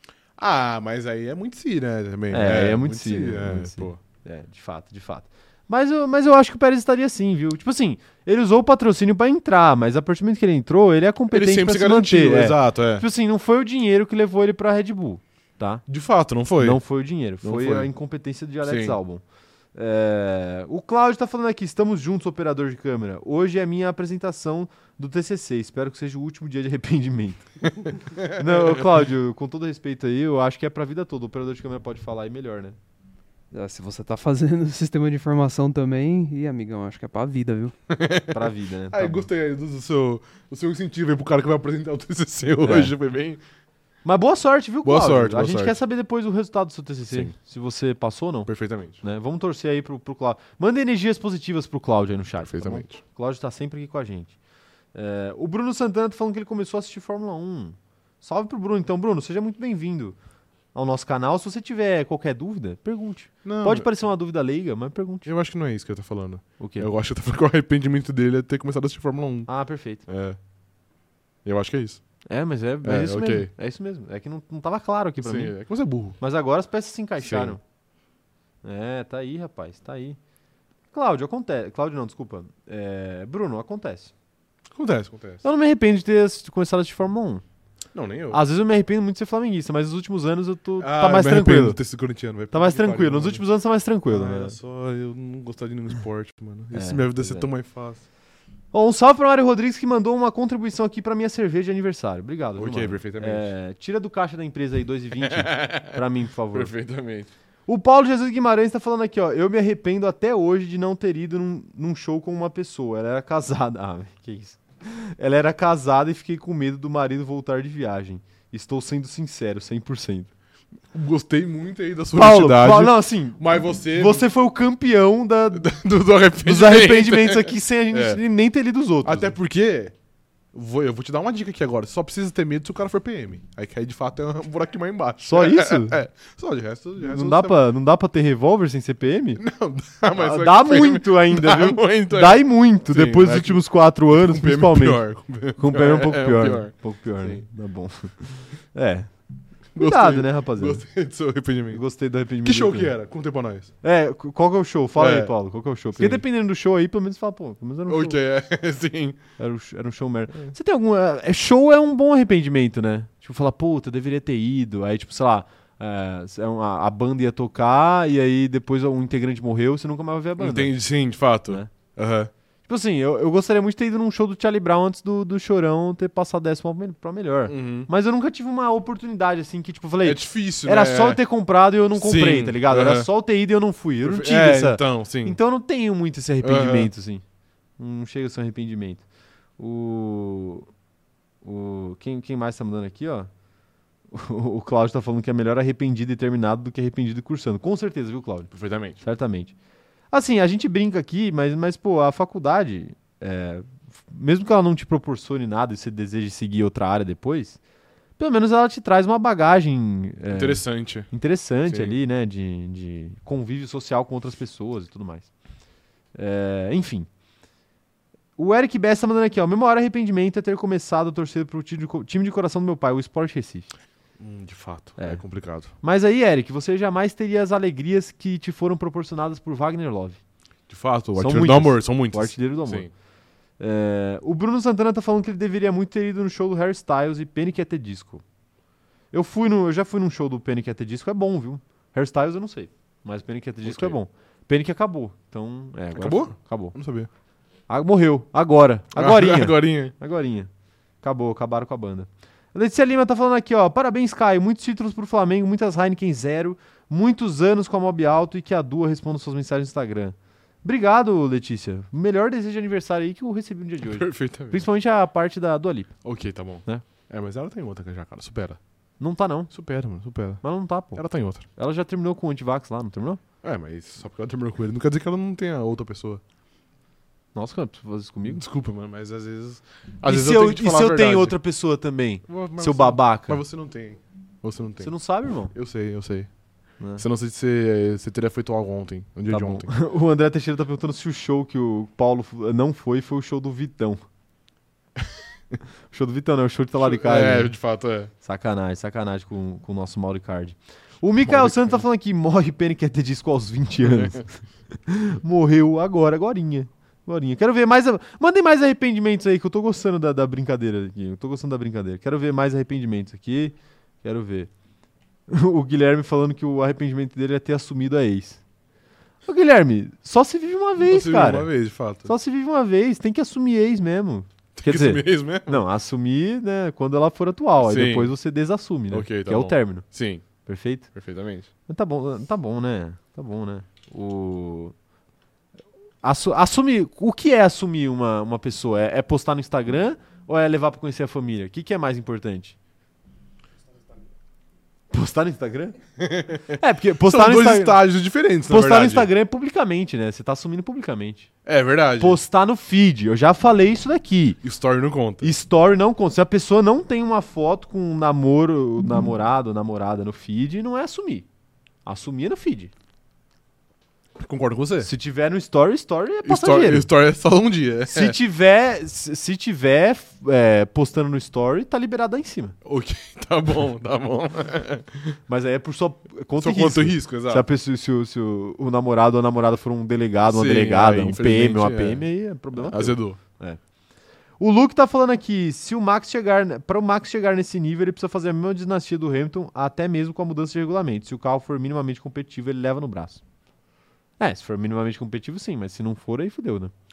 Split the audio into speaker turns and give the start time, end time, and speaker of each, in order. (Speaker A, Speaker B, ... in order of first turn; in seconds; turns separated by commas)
Speaker A: 0.4-4.0, Speaker B: 2.3-15.8, Speaker A: 11.3-13.1, Speaker A: 15.9-16.8, Speaker B: 16.6-19.2, Speaker A: 17.4-17.9, Speaker A: 18.6-19.0, Speaker B: 19.7-27.4, Speaker A: 27.7-28.8, Speaker B: 28.3-32.8, Speaker C: 33.5-37.7, Speaker A: 37.9-43.4, Speaker B: 38.3-39.3, Speaker B: 42.6-42.9, Speaker B: 44.0-48.5, Speaker A: 44.8-45.8, Speaker A: 48.5-49.0, Speaker B: 49.0-54.3, Speaker A: 52.4-53.0, Speaker B: 54.9-60.1, Speaker B: 60.7-65.3, Speaker A: 63.4-63.9, Speaker A: 65.2-69.5, Speaker B: 66.6-66.9, Speaker B: 69.5-70.1, Speaker A: 70.1-70.4, Speaker A: 71.4-72.0, Speaker B: 72.3-75.5, Speaker A: 72.8-73.5, Speaker A: 75.2-76.2, Speaker B: 76.2-77.6, Speaker A: 77.2-77.6, Speaker B: 78.6-80.2, Speaker B: 80.9-84.1, Speaker A: 84.7-85.4, Speaker B: 85.4-87.4, Speaker A: 87.9-88.4, Speaker B: 88.3-91.8, Speaker A: 90.8-93.4, Speaker B: 92.5-94.5, Speaker A: 94.1-98.0, Speaker B: 96.7-97.5, Speaker B: 98.7-106.7, Speaker A: 102.6-103.5, Speaker A: 105.2-106.0, Speaker A: 106.5-107.3, Speaker B: 107.7-120.3, Speaker A: 120.9-124.2, Speaker B: 122.1-125.7, Speaker A: 125.5-128.2, Speaker B: 126.4-129.3, Speaker A: 129.0-129.9, Speaker A: 130.5-137.6, Speaker B: 135.2-136.0, Speaker B: 137.0-139.4, Speaker A: 139.4-147.4, Speaker B: 140.1-145.0, Speaker B: 145.6-149.1, Speaker A: 149.7-151.8, Speaker B: 149.8-150.8, Speaker B: 151.7-152.9, Speaker A: 152.4-153.7, Speaker B: 153.8-158.2, Speaker A: 155.0-155.3, Speaker A: 155.9-156.2, Speaker A: 157.9-159.2, Speaker B: 159.4-170.7, Speaker A: 170.4-172.3, Speaker B: 172.7-187.2, Speaker A: 177.5-177.9, Speaker A: 180.0-181.2, Speaker A: 181.9-183.1, Speaker A: 184.0-185.4, Speaker A: 186.4-186.9, Speaker B: 187.8-189.0, Speaker B: 189.6-190.7, Speaker B: 191.4-193.3, Speaker B: 194.1-199.5, Speaker A: 198.5-199.0, Speaker B: 200.1-207.6, Speaker B: 208.2-215.3, Speaker A: 210.3-211.1, Speaker A: 211.7-211.9, Speaker B: 216.1-217.1, Speaker B: 218.4-223.7, Speaker A: 224.2-225.7, Speaker B: 225.8-230.2, Speaker A: 230.7-232.9, Speaker B: 231.2-232.9, Speaker B: 233.6-238.2, Speaker B: 239.1-246.7, Speaker A: 243.6-243.9, Speaker A: 245.9-247.1, Speaker B: 247.7-250.5, Speaker A: 248.9-249.9, Speaker B: 251.0-265.9, Speaker A: 263.8-264.6, Speaker A: 266.0-268.6, Speaker B: 269.0-269.5, Speaker A: 269.5-270.4, Speaker B: 270.4-271.0, Speaker A: 270.9-271.4, Speaker B: 271.5-273.2, Speaker A: 273.4-276.2, Speaker B: 277.3-278.4, Speaker A: 278.3-281.4, Speaker B: 280.0-283.4, Speaker A: 282.3-284.9, Speaker B: 284.8-285.5, Speaker A: 285.5-286.3, Speaker B: 286.8-287.0, Speaker A: 287.0-289.7, Speaker B: 289.3-294.0, Speaker B: 295.9-297.5, Speaker A: 296.8-298.1, Speaker B: 298.2-314.5, Speaker A: 301.2-301.8, Speaker A: 303.8-304.2, Speaker B: 315.3-318.4, Speaker B: 319.2-321.5, Speaker A: 320.8-322.1, Speaker B: 322.0-329.8, Speaker A: 324.6-325.6, Speaker A: 327.6-328.1, Speaker A: 328.9-330.2, Speaker B: 330.4-330.9, Speaker A: 330.9-331.5, Speaker B: 331.7-334.7, Speaker B: 336.0-342.6, Speaker B: 344.9-345.8, Speaker A: 346.0-349.1, Speaker B: 346.5-347.8, Speaker B: 348.5-351.3, Speaker A: 351.4-352.2, Speaker B: 352.0-354.4, Speaker A: 354.4-355.3, Speaker B: 355.2-361.3, Speaker B: 361.8-362.7, Speaker A: 364.2-364.9, Speaker B: 364.8-366.9, Speaker A: 366.2-368.1, Speaker B: 367.9-372.5, Speaker A: 372.6-375.1, Speaker B: 375.3-383.6, Speaker A: 376.4-377.4, Speaker A: 380.3-383.2, Speaker B: 384.4-393.2, Speaker B: 394.2-396.7